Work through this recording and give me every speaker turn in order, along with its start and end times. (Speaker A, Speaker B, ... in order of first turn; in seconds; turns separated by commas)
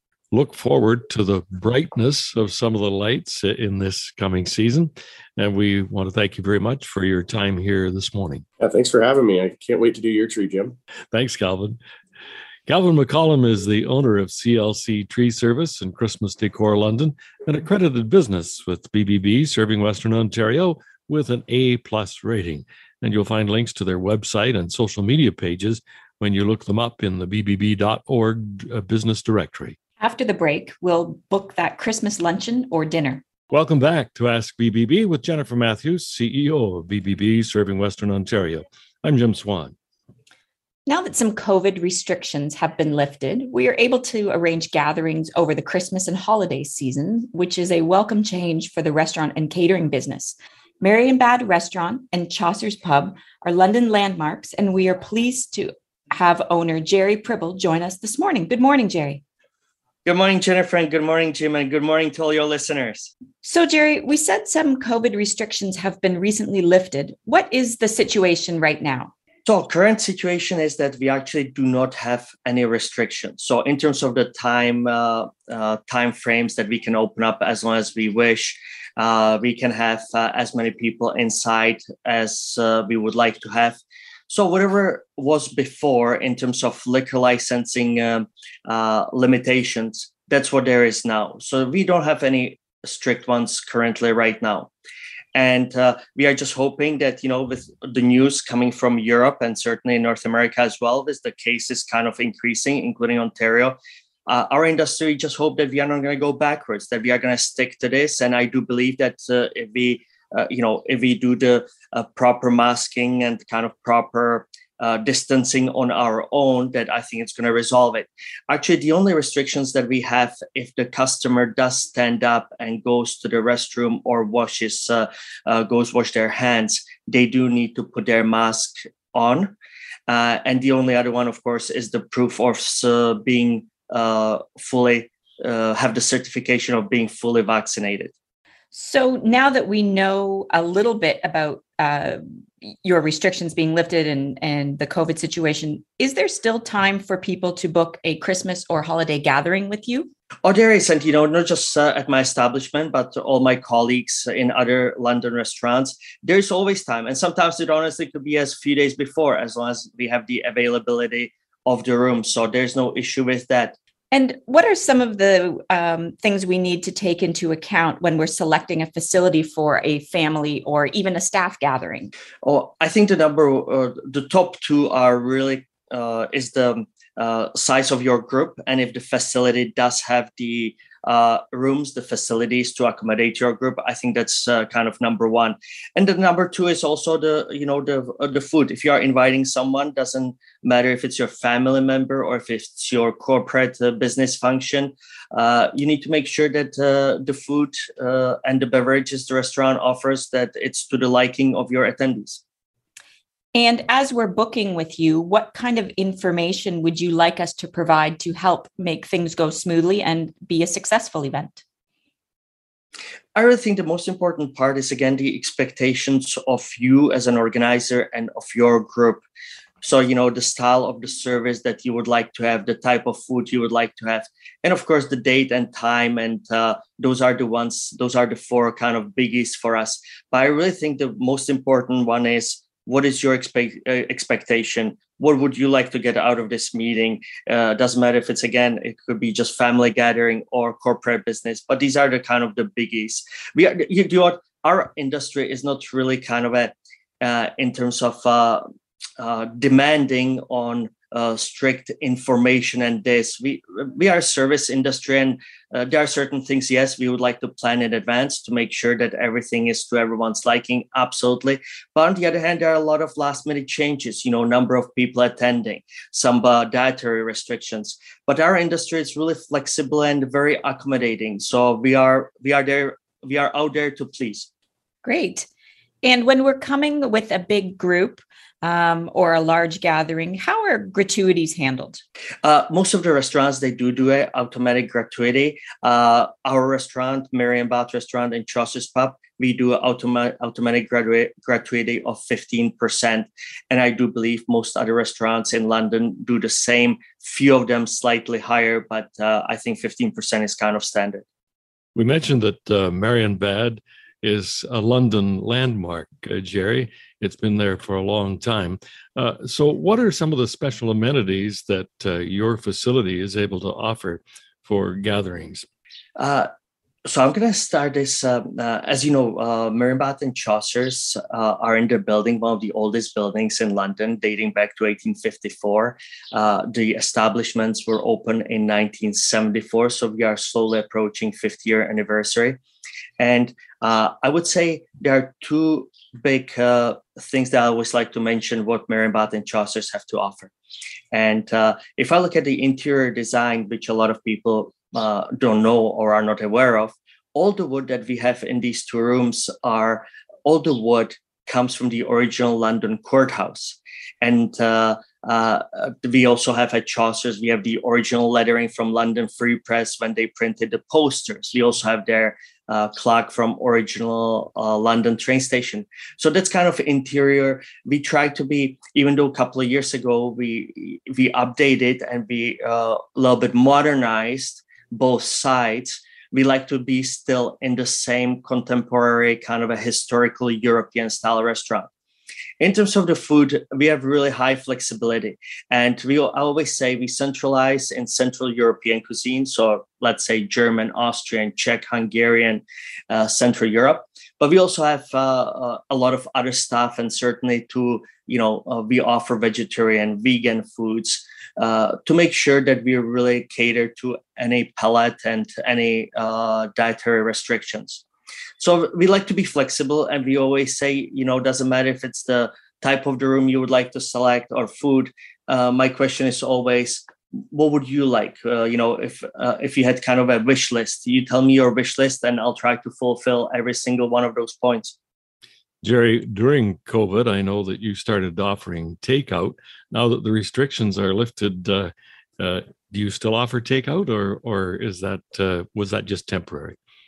Speaker A: 0.3-8.4, Speaker B: 8.6-10.8, Speaker A: 11.1-11.8, Speaker A: 12.7-29.8, Speaker C: 30.0-33.2, Speaker A: 33.5-39.8, Speaker C: 40.9-59.2, Speaker D: 60.0-63.1, Speaker C: 63.4-69.1, Speaker D: 69.5-94.7, Speaker D: 95.3-129.5, Speaker D: 130.1-138.1, Speaker C: 138.7-150.1, Speaker D: 150.4-163.8, Speaker C: 164.1-172.1, Speaker D: 172.4-202.4, Speaker C: 203.5-211.6, Speaker D: 213.3-219.2, Speaker D: 219.8-248.6, Speaker D: 249.2-274.5, Speaker C: 275.0-275.4, Speaker C: 276.0-282.0, Speaker D: 282.4-301.2, Speaker A: 301.9-315.6, Speaker D: 316.2-316.5, Speaker D: 317.1-332.6, Speaker D: 333.2-340.5, Speaker D: 341.1-381.9, Speaker D: 382.6-408.0, Speaker D: 408.6-424.9, Speaker A: 425.8-436.8